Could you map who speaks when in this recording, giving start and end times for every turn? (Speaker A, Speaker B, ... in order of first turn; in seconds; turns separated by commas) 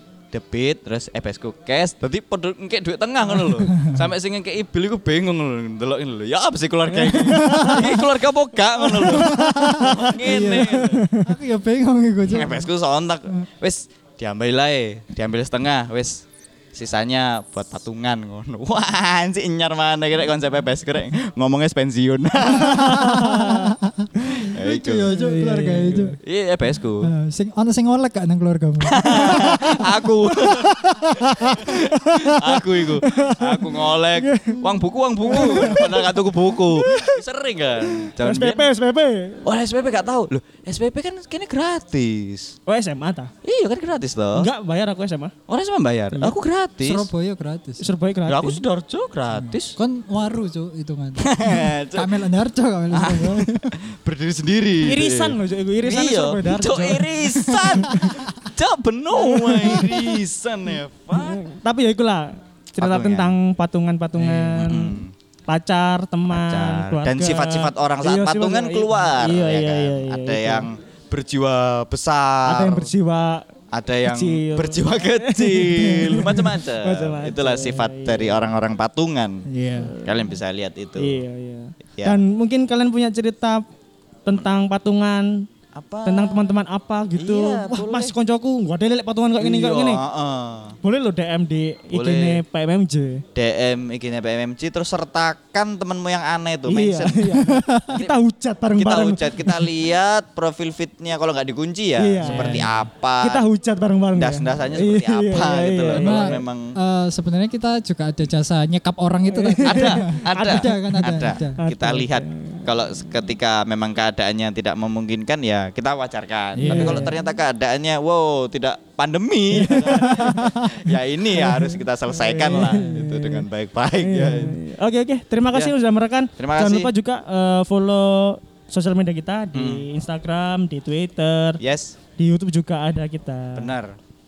Speaker A: 0.3-11.1, Speaker B: 3.7-4.0, Speaker C: 7.0-7.8, Speaker B: 7.2-7.9, Speaker B: 8.8-12.7, Speaker C: 9.0-11.2, Speaker A: 12.3-23.4, Speaker B: 22.7-26.2, Speaker C: 22.8-23.6, Speaker A: 24.4-25.2, Speaker C: 25.1-26.1, Speaker A: 25.9-27.1, Speaker B: 27.0-32.6, Speaker A: 28.8-38.7, Speaker C: 33.0-37.2, Speaker B: 35.3-35.7, Speaker C: 37.9-39.4, Speaker A: 39.4-42.5, Speaker C: 42.7-43.3, Speaker A: 43.4-44.5, Speaker C: 44.4-45.3, Speaker A: 45.5-47.1, Speaker B: 46.8-47.9, Speaker C: 47.8-48.6, Speaker A: 48.2-49.8, Speaker B: 49.3-53.7, Speaker A: 51.2-52.1, Speaker A: 52.9-61.4, Speaker C: 54.8-58.1, Speaker C: 59.3-60.2, Speaker C: 61.1-70.7, Speaker A: 62.8-63.4, Speaker B: 64.2-64.5, Speaker A: 64.5-65.1, Speaker A: 66.3-72.9, Speaker C: 72.4-73.5, Speaker A: 73.7-79.5, Speaker C: 74.0-78.5, Speaker B: 79.5-79.9, Speaker C: 79.8-80.2, Speaker A: 80.0-81.2, Speaker C: 81.0-83.6, Speaker C: 84.2-85.5, Speaker A: 85.7-86.5, Speaker C: 86.0-90.0, Speaker A: 87.1-88.1, Speaker A: 89.4-90.8, Speaker C: 90.8-93.2, Speaker A: 91.9-92.4, Speaker A: 93.3-98.2, Speaker C: 96.7-99.7, Speaker B: 97.4-98.0, Speaker A: 98.7-103.5, Speaker C: 102.0-102.7, Speaker B: 102.2-102.7, Speaker C: 103.2-106.4, Speaker A: 104.1-106.7, Speaker B: 105.9-111.6, Speaker C: 109.3-112.7, Speaker A: 109.6-124.6, Speaker B: 116.6-117.1, Speaker C: 116.6-117.1, Speaker C: 119.5-120.4, Speaker B: 119.9-120.8, Speaker C: 121.4-123.5, Speaker C: 124.0-131.6, Speaker A: 126.4-126.9, Speaker A: 129.5-129.8, Speaker A: 131.6-132.0, Speaker C: 132.2-133.7, Speaker A: 133.5-134.0